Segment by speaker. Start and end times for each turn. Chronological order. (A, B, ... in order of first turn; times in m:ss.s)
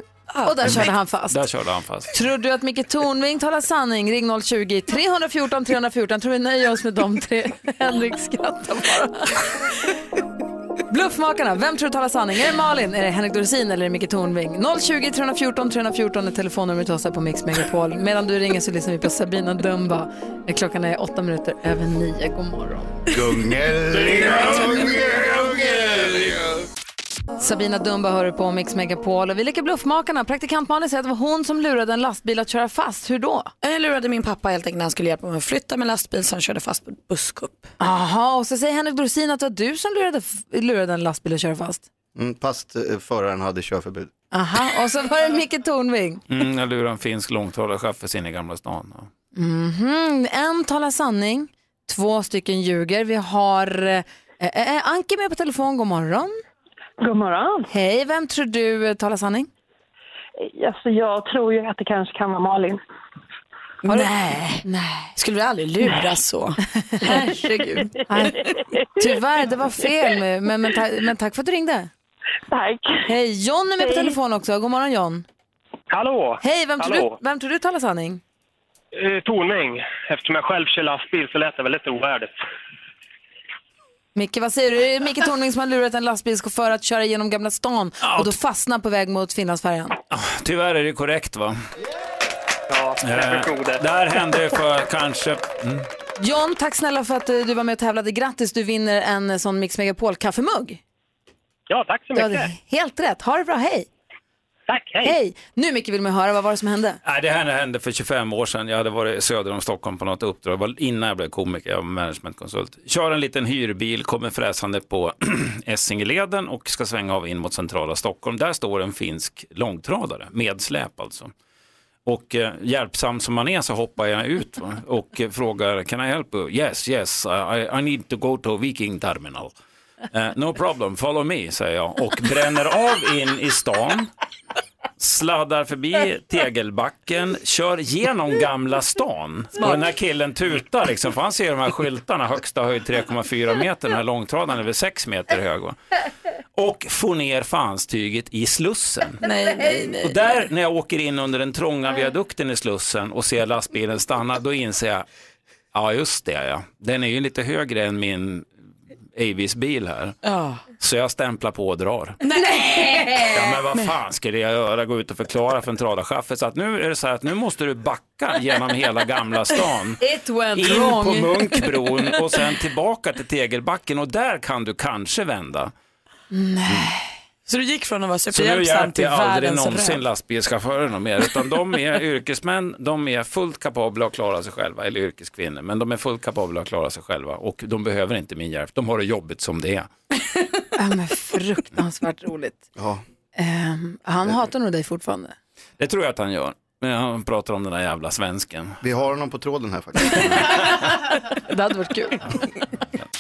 0:00.3-0:00.8 A
0:00.4-0:01.4 B
0:00.7-0:02.1 C
0:02.1-0:09.5 B
0:10.9-0:23.0 B
0:23.3-0:24.7 D
0:23.9-0:24.5 C
0:27.4-0:33.5 B
0:33.6-0:37.7 A
0:37.8-0:41.8 B
0:42.1-0:44.1 D
0:44.3-0:46.2 B
0:46.3-0:49.1 C
0:49.3-0:56.3 B
0:57.0-0:57.7 E
0:57.7-0:59.5 B
1:00.4-1:02.8 E
1:03.8-1:04.6 A
1:03.9-1:05.1 B
1:05.2-1:07.2 A
1:06.8-1:11.9 B
1:12.5-1:13.0 E
1:13.0-1:15.2 B
1:15.9-1:17.1 F
1:16.4-1:18.2 B
1:18.9-1:22.3 F
1:24.1-1:30.0 B
1:28.0-1:28.3 C
1:30.1-1:31.6 C
1:32.7-1:33.8 F
1:33.0-1:35.9 C
1:36.2-1:40.8 B
1:41.7-1:42.5 F
1:42.1-1:43.9 B
1:44.7-1:45.1 F
1:45.0-1:47.0 B
1:47.0-2:01.3 C
2:02.0-2:09.5 C
2:10.1-2:14.1 C
2:15.0-2:25.8 C
2:26.6-2:29.2 C
2:29.2-2:30.1 A
2:30.0-2:35.0 C
2:35.7-2:38.5 C
2:39.1-2:40.2 C
2:40.2-2:40.6 A
2:40.8-2:42.2 C
2:42.2-2:43.3 A
2:42.4-2:43.6 B
2:43.3-2:50.0 C
2:50.0-2:51.7 B
2:50.5-2:55.7 C
2:56.3-2:57.1 B
2:57.4-3:00.0 A
2:58.3-3:09.9 C
3:10.7-3:12.6 B
3:12.8-3:13.0 D
3:13.4-3:15.3 B
3:15.8-3:18.8 C
3:18.8-3:20.6 D
3:21.3-3:22.3 B